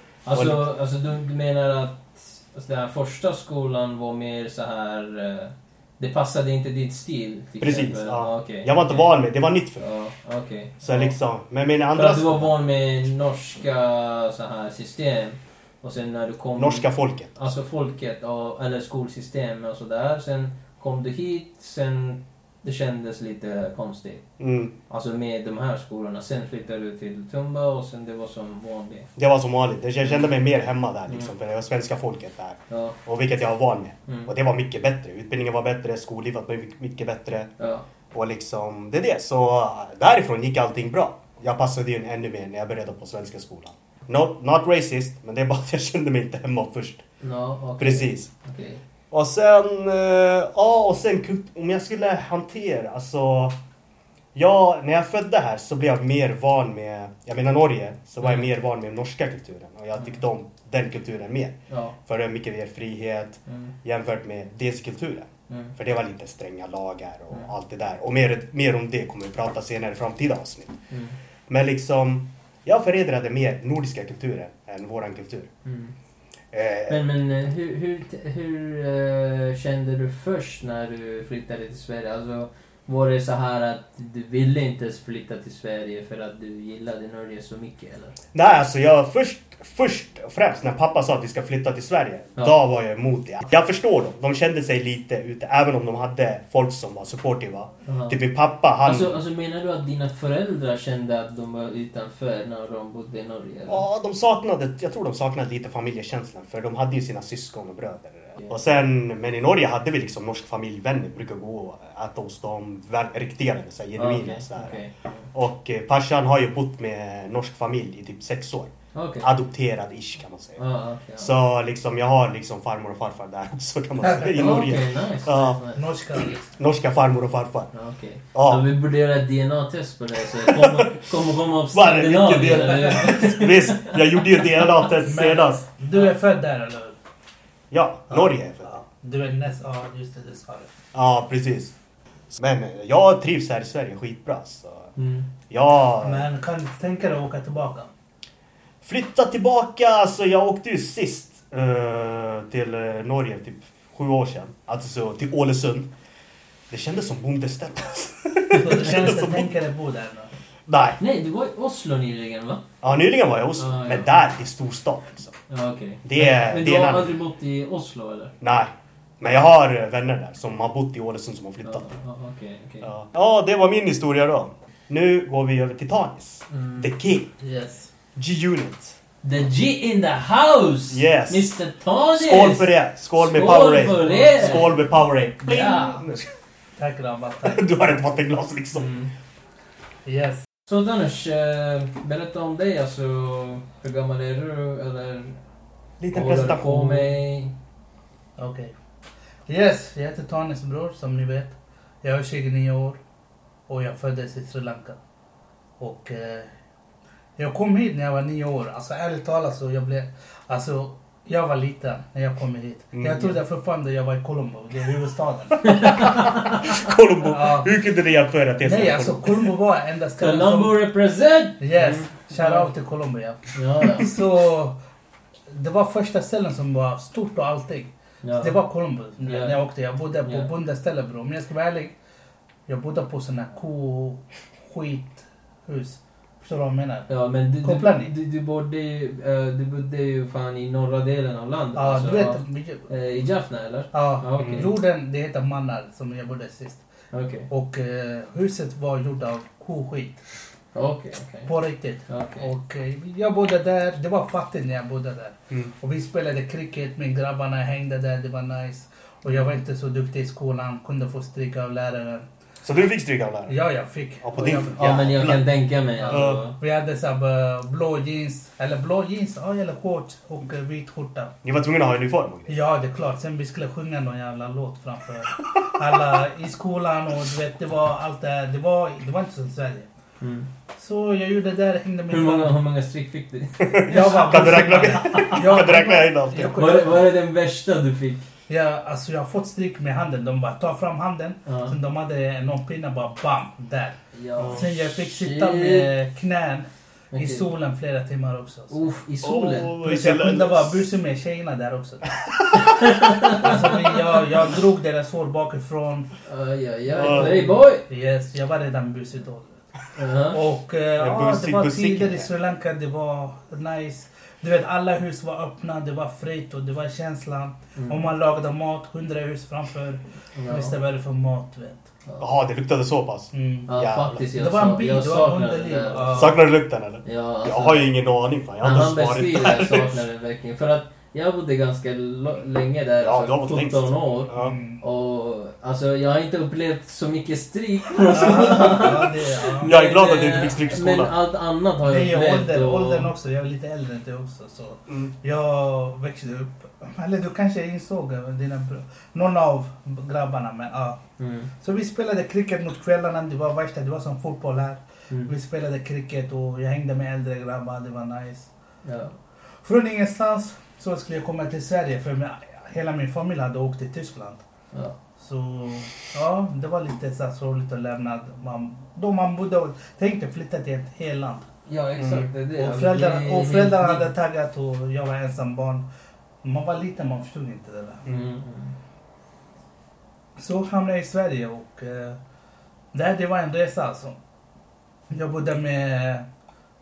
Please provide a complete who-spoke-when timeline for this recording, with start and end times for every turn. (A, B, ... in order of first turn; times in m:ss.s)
0:00.2-0:09.2 A
0:00.3-0:00.6 B
0:07.6-0:09.8 B
0:09.8-0:11.1 A
0:10.8-0:12.6 B
0:11.9-0:24.2 A
0:16.6-0:17.4 B
0:24.4-0:24.7 B
0:24.9-0:29.1 A
0:29.2-0:37.5 B
0:30.0-0:30.3 A
0:32.7-0:33.0 A
0:37.6-0:37.8 A
0:38.1-0:47.0 B
0:47.2-0:48.8 A
0:47.8-0:48.3 B
0:49.1-0:53.6 B
0:54.3-1:10.8 B
0:58.2-0:58.4 A
1:01.7-1:02.0 A
1:03.5-1:03.7 A
1:05.5-1:05.7 A
1:11.5-1:15.5 B
1:15.6-1:15.9 A
1:16.5-1:17.0 B
1:16.9-1:28.2 A
1:28.3-1:39.2 B
1:37.8-1:38.2 A
1:38.8-1:43.8 A
1:43.7-1:54.8 B
1:54.0-1:55.2 A
1:55.3-2:00.6 B
1:58.9-1:59.3 A
2:00.6-2:01.3 A
2:01.2-2:05.6 B
2:04.0-2:04.3 C
2:04.3-2:05.8 A
2:05.7-2:06.5 C
2:06.5-2:07.7 B
2:07.7-2:14.0 A
2:08.3-2:08.6 B
2:10.3-2:11.0 B
2:11.7-2:15.6 B
2:15.0-2:17.0 C
2:17.7-2:18.7 B
2:18.1-2:20.7 C
2:20.9-2:21.7 B
2:22.3-2:24.9 B
2:25.0-2:25.3 A
2:25.5-2:26.2 B
2:26.0-2:27.9 C
2:28.8-2:35.9 B
2:36.7-2:39.5 B
2:38.5-2:40.3 C
2:40.7-2:41.0 B
2:41.0-2:42.6 A
2:42.8-2:45.3 B
2:43.6-2:44.2 A
2:45.5-2:48.3 A
2:46.0-2:47.1 B
2:48.4-2:51.9 B
2:51.6-2:52.9 A
2:52.8-2:57.3 B
2:56.5-2:56.9 A
2:57.4-2:57.9 C
2:58.2-2:59.0 B
2:59.2-3:04.8 A
3:00.9-3:01.5 B
3:02.1-3:06.3 B
3:04.0-3:04.5 C
3:05.4-3:06.0 A
3:06.8-3:07.7 C
3:07.4-3:08.9 B
3:08.7-3:09.1 A
3:10.0-3:10.4 C
3:10.6-3:15.4 A
3:16.0-3:17.1 B
3:16.1-3:17.5 A
3:18.4-3:18.7 C
3:19.5-3:23.0 C
3:23.7-3:25.0 C
3:25.8-3:26.5 C
3:27.4-3:35.9 C
3:32.9-3:33.3 B
3:35.6-3:36.8 A
3:35.9-3:39.5 B
3:37.2-3:37.7 C
3:38.6-3:40.8 C
3:40.2-3:42.7 A
3:41.6-3:44.8 C
3:43.5-3:44.1 A
3:45.5-3:51.9 C
3:48.2-3:48.6 A
3:49.2-3:49.6 A
3:52.7-3:57.1 C
3:57.1-4:04.7 A
3:57.6-3:58.1 C
4:01.7-4:02.9 C
4:03.9-4:06.8 C
4:04.4-4:04.7 B
4:07.1-4:07.5 A
4:07.5-4:10.2 C
4:10.7-4:11.5 A
4:11.5-4:22.2 C
4:12.1-4:12.5 A
4:22.6-4:23.5 B
4:23.5-4:24.9 C
4:24.2-4:25.4 B
4:24.4-4:26.6 A
4:26.0-4:31.4 C
4:26.1-4:26.4 B
4:31.4-4:32.6 B
4:32.5-4:39.9 C
4:40.2-4:40.5 A
4:40.8-4:42.5 C
4:42.1-4:45.6 A
4:43.6-4:46.6 B
4:43.9-4:47.1 C
4:46.6-4:48.2 A
4:48.5-4:58.8 C
4:51.4-4:51.8 A
4:54.1-4:55.9 A
4:54.4-4:54.6 B
4:57.1-4:57.5 A
4:58.7-4:59.8 A
4:59.2-5:00.8 B
4:59.8-5:02.2 C
5:02.2-5:03.5 B
5:02.5-5:03.8 A
5:03.3-5:06.1 C
5:06.2-5:07.8 A
5:06.9-5:07.5 B
5:07.0-5:09.6 C
5:09.9-5:10.4 A
5:10.3-5:21.9 C
5:11.0-5:12.3 B
5:17.8-5:18.0 A
5:20.3-5:20.7 A
5:22.2-5:24.2 B
5:23.3-5:26.4 C
5:23.7-5:26.3 A
5:26.1-5:30.0 B
5:27.0-5:27.9 A
5:28.6-5:43.1 A
5:33.0-5:34.5 B
5:34.4-5:34.8 C
5:38.1-5:39.7 C
5:39.6-5:41.1 B
5:41.8-5:51.0 C
5:51.2-5:51.5 A
5:51.6-5:58.5 C
5:58.8-5:59.1 A
5:59.6-6:04.4 C
6:05.2-6:11.5 C
6:11.7-6:14.1 A
6:12.0-6:12.3 B
6:12.6-6:15.8 C
6:16.4-6:18.1 C
6:18.0-6:18.8 A
6:20.4-6:22.2 C
6:22.9-6:24.2 C
6:25.1-6:26.2 C